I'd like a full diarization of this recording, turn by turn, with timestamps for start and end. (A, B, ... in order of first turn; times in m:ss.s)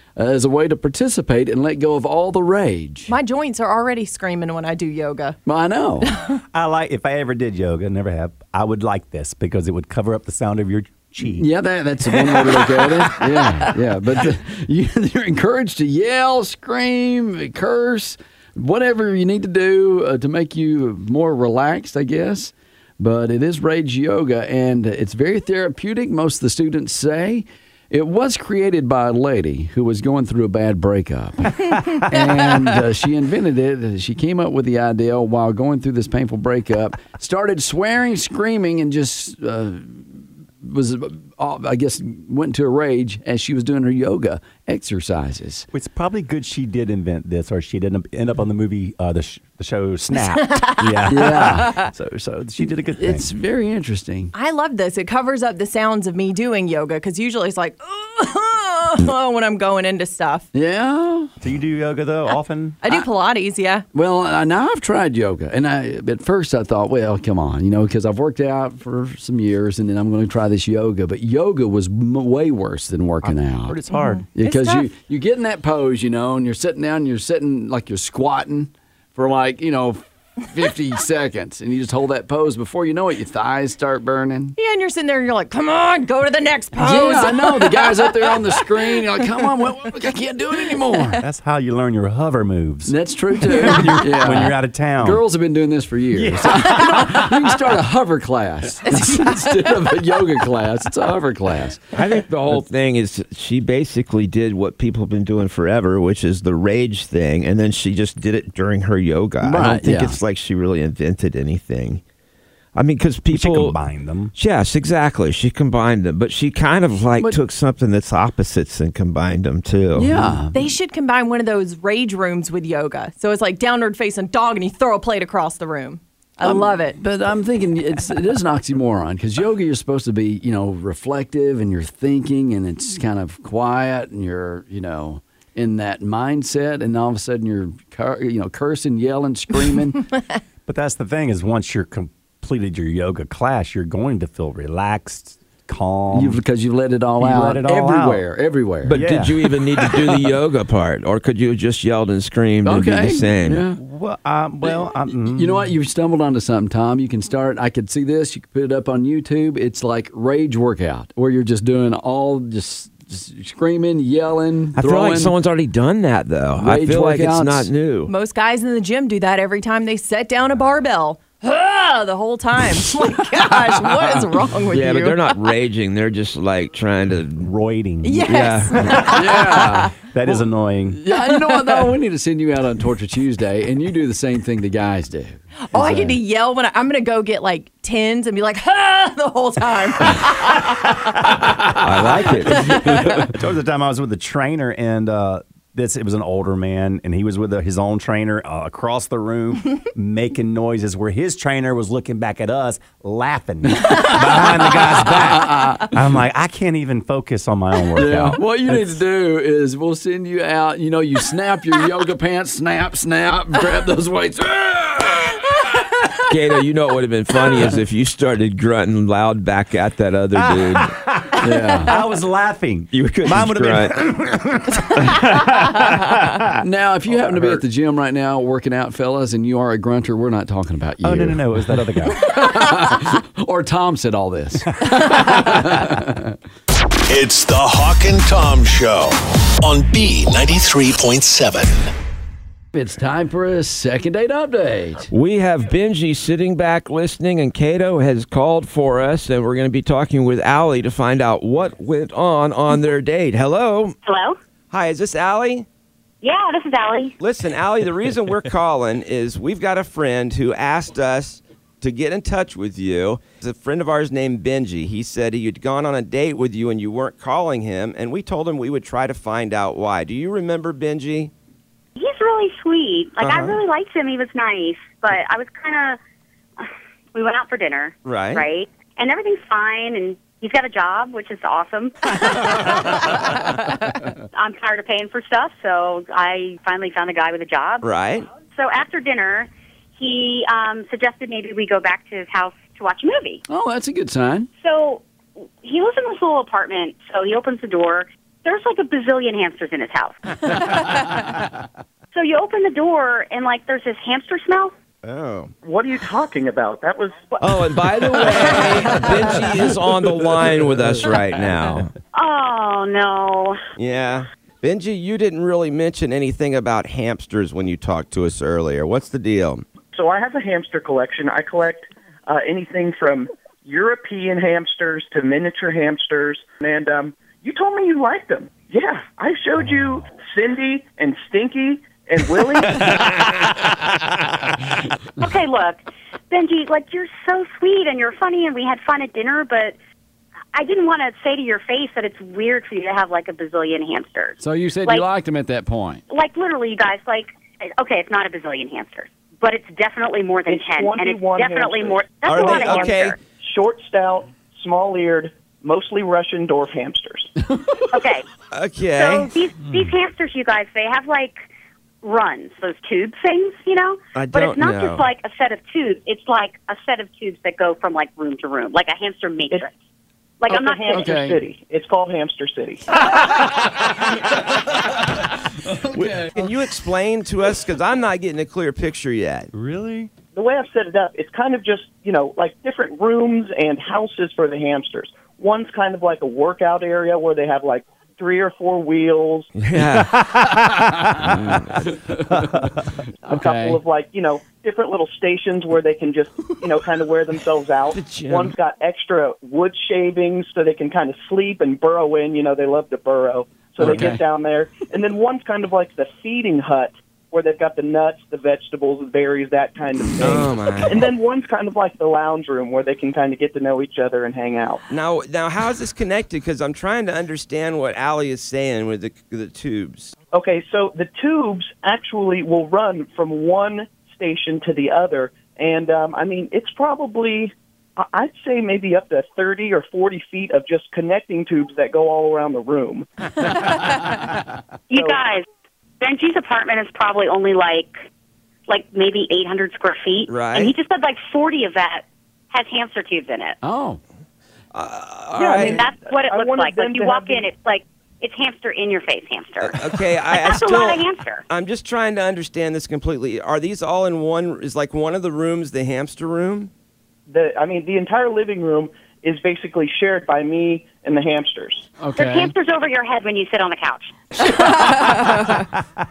0:00.2-0:03.1 A
0:03.1-0:05.4 B
0:05.4-0:06.1 A
0:06.1-0:06.4 B
0:06.5-0:11.5 C
0:11.4-0:45.7 A
0:12.2-0:13.5 C
0:45.7-0:53.3 C
0:50.2-0:51.9 B
0:51.1-0:51.8 A
0:53.0-0:54.3 A
0:54.3-1:00.5 B
1:00.5-1:01.3 A
1:01.4-1:03.0 C
1:02.8-1:03.8 B
1:03.9-1:13.8 A
1:13.2-1:14.2 C
1:13.9-1:14.9 B
1:14.3-1:24.6 A
1:24.6-1:29.0 B
1:26.8-1:31.2 A
1:31.2-1:35.2 C
1:32.9-1:41.8 A
1:36.1-1:37.3 C
1:39.0-1:39.3 B
1:41.9-1:52.0 D
1:49.4-1:50.2 A
1:52.7-1:53.8 D
1:53.3-1:54.3 C
1:54.3-2:00.2 D
1:59.9-2:00.7 A
2:00.5-2:07.0 B
2:06.4-2:20.1 A
2:20.7-2:26.4 C
2:26.1-2:29.0 A
2:27.2-2:28.2 C
2:28.8-2:33.6 D
2:28.9-2:29.5 C
2:32.6-2:33.8 A
2:33.8-2:35.7 C
2:35.2-2:45.3 A
2:44.8-2:48.1 D
2:46.6-2:47.7 A
2:48.1-2:55.3 B
2:54.7-2:57.5 D
2:57.4-2:59.3 C
2:58.0-2:59.8 B
2:58.2-2:59.0 D
2:59.0-3:06.1 A
2:59.9-3:01.0 C
3:05.7-3:10.9 B
3:11.4-3:29.0 C
3:11.8-3:13.2 D
3:23.8-3:25.9 A
3:27.9-3:35.6 A
3:36.3-3:40.9 D
3:40.4-3:47.6 C
3:41.4-3:42.0 A
3:42.9-3:44.1 D
3:46.6-3:56.4 A
3:51.0-3:52.3 C
3:57.1-4:01.9 E
4:02.7-4:05.1 A
4:05.1-4:14.0 D
4:14.0-4:14.4 F
4:14.7-4:15.6 D
4:16.2-4:17.2 F
4:17.2-4:31.3 D
4:32.0-4:36.0 F
4:33.2-4:33.6 D
4:36.6-4:43.4 F
4:38.0-4:38.4 D
4:44.3-4:47.8 F
4:47.8-4:48.2 D
4:48.5-4:53.4 F
4:53.5-4:54.5 A
4:54.6-5:00.2 F
5:02.1-5:04.7 F
5:05.0-5:05.5 D
5:05.6-5:09.4 G
5:07.4-5:11.9 D
5:12.1-5:13.6 F
5:13.8-5:19.6 D
5:19.9-5:33.1 G
5:35.2-5:39.8 F
5:40.5-5:45.1 F
5:44.4-5:46.0 A
5:46.1-5:53.2 F
5:50.5-5:57.3 G
5:52.2-5:53.2 D
5:57.9-5:58.2 F
5:58.5-5:59.3 D
5:58.9-6:01.3 F
6:02.0-6:09.7 F
6:04.1-6:05.0 D
6:10.4-6:11.1 F
6:10.5-6:12.8 G
6:10.9-6:11.4 A
6:15.6-6:16.5 A
6:15.9-6:19.5 D
6:19.5-6:20.1 C
6:20.3-6:29.5 G
6:29.6-6:30.2 D
6:29.9-6:31.3 C
6:31.8-6:33.8 A
6:33.3-6:54.8 G
6:37.9-6:38.5 D
6:43.8-6:44.1 D
6:50.2-6:51.1 D
6:54.9-7:00.1 D
7:00.3-7:13.1 G
7:14.9-7:15.4 F
7:14.9-7:15.2 G
7:16.0-7:17.9 F
7:18.7-7:23.6 F
7:20.3-7:20.7 D
7:23.6-7:24.0 A
7:24.7-7:25.8 D
7:25.4-7:27.5 G
7:25.5-7:31.4 F
7:29.6-7:36.7 D
7:37.3-7:41.8 G
7:42.0-7:42.5 A
7:42.2-7:44.5 F
7:44.6-7:45.5 B